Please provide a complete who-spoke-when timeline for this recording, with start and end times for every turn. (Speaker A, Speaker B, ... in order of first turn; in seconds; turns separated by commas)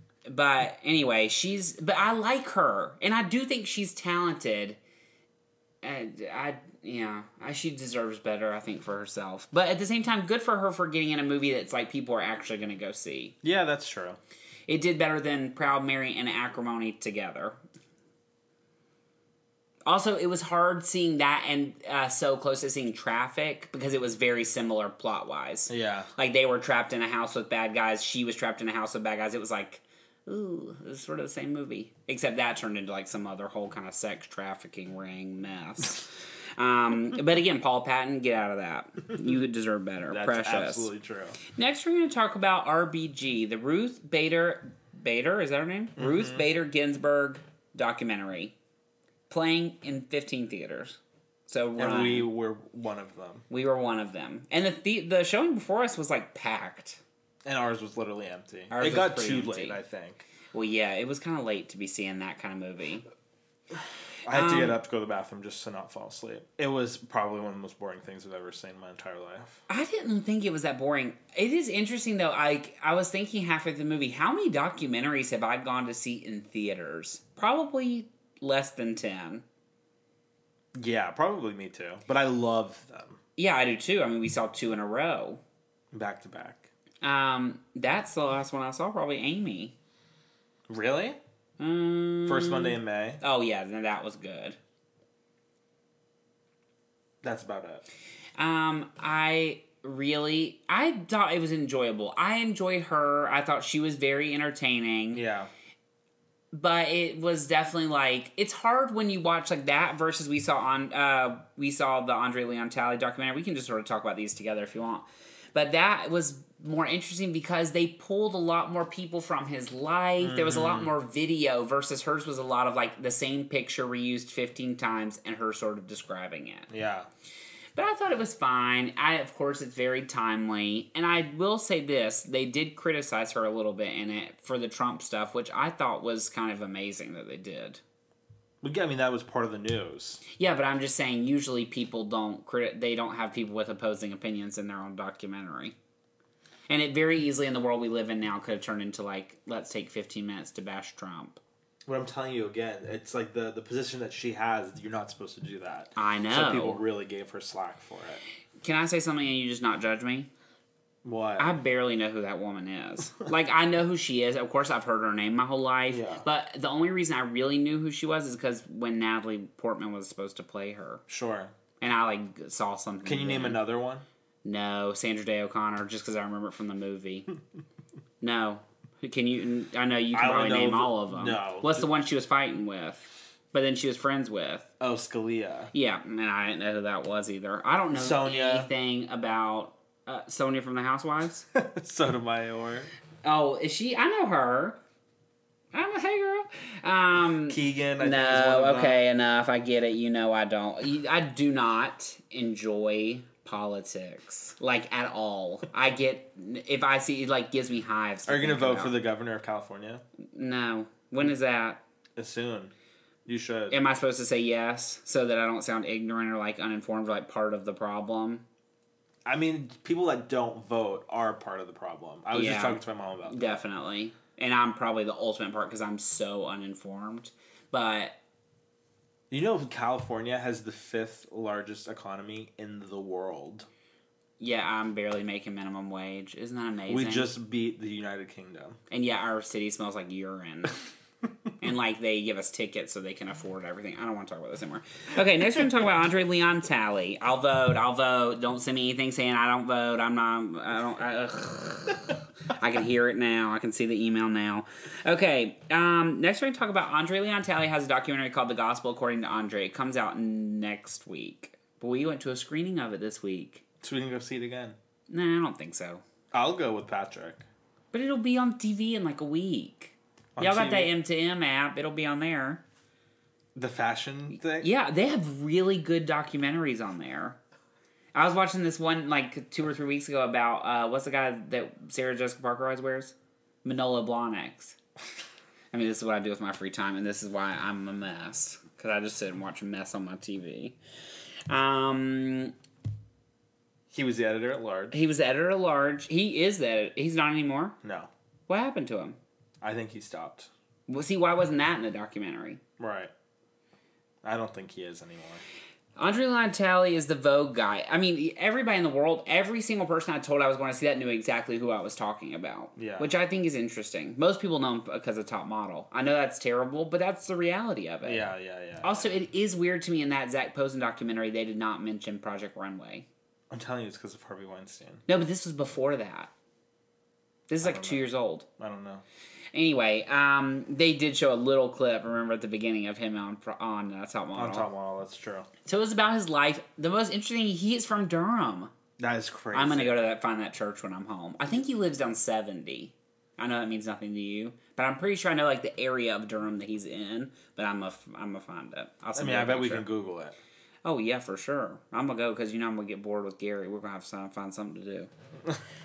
Speaker A: 0.2-4.8, Speaker A: 5.8-13.3, Speaker B: 13.4-14.2, Speaker A: 14.7-17.6, Speaker A: 19.9-40.9, Speaker B: 25.7-26.1, Speaker B: 40.1-41.4, Speaker A: 41.5-48.5, Speaker B: 46.0-46.4, Speaker A: 49.3-52.3, Speaker B: 51.8-53.4, Speaker A: 53.5-57.0, Speaker B: 57.4-60.2, Speaker A: 58.7-59.8, Speaker A: 60.5-63.0, Speaker B: 64.2-69.6, Speaker A: 64.3-64.8, Speaker A: 69.7-79.4, Speaker B: 80.8-83.2, Speaker A: 83.4-85.4, Speaker B: 85.9-86.7, Speaker A: 87.0-89.7, Speaker B: 90.7-91.2, Speaker A: 91.6-94.6, Speaker B: 92.2-93.2, Speaker B: 97.2-97.8, Speaker A: 98.4-105.2, Speaker B: 105.1-105.5, Speaker A: 106.5-126.7, Speaker B: 120.2-120.9, Speaker B: 126.7-127.1, Speaker A: 127.8-137.8, Speaker B: 138.6-140.2, Speaker A: 140.4-145.8, Speaker A: 146.7-151.4, Speaker B: 151.9-158.2, Speaker A: 155.9-156.8, Speaker A: 158.6-160.3, Speaker B: 161.0-161.6, Speaker A: 161.4-171.0, Speaker B: 165.9-166.2, Speaker B: 171.1-171.5, Speaker A: 171.8-173.6, Speaker B: 173.0-174.1, Speaker A: 174.4-177.3, Speaker A: 178.2-184.7, Speaker B: 180.1-181.9, Speaker B: 184.8-185.7, Speaker A: 185.7-191.4, Speaker B: 187.9-188.7, Speaker B: 191.5-192.9, Speaker A: 193.2-194.8, Speaker A: 195.7-209.0, Speaker B: 197.5-199.0, Speaker B: 208.3-210.0, Speaker A: 210.3-211.8, Speaker B: 212.2-212.7, Speaker B: 213.2-213.8, Speaker A: 213.7-218.4, Speaker B: 219.2-223.6, Speaker A: 222.3-228.2, Speaker B: 229.3-233.7, Speaker A: 234.4-237.3, Speaker B: 236.9-238.8, Speaker A: 238.9-240.8, Speaker A: 241.6-263.6, Speaker B: 263.8-264.8, Speaker A: 265.1-266.0, Speaker B: 266.3-267.4, Speaker A: 267.9-272.6, Speaker B: 270.4-270.9, Speaker B: 273.5-274.7, Speaker A: 274.5-277.4, Speaker A: 278.1-284.8, Speaker A: 285.7-290.8, Speaker A: 291.5-292.5, Speaker B: 293.9-295.0, Speaker A: 294.9-297.8, Speaker B: 297.8-298.1, Speaker A: 298.5-299.2, Speaker B: 299.6-300.5, Speaker A: 300.9-302.6, Speaker B: 302.8-303.1, Speaker B: 304.2-305.4, Speaker A: 306.0-318.3, Speaker B: 312.8-313.1, Speaker B: 318.0-319.1, Speaker A: 318.8-323.1, Speaker B: 323.5-325.0, Speaker A: 325.1-326.3, Speaker A: 327.5-328.4, Speaker B: 327.6-329.0, Speaker A: 329.5-334.7, Speaker B: 334.4-335.5, Speaker A: 335.6-338.7, Speaker B: 339.0-340.0, Speaker A: 339.5-349.9, Speaker B: 349.1-350.4, Speaker A: 350.9-355.1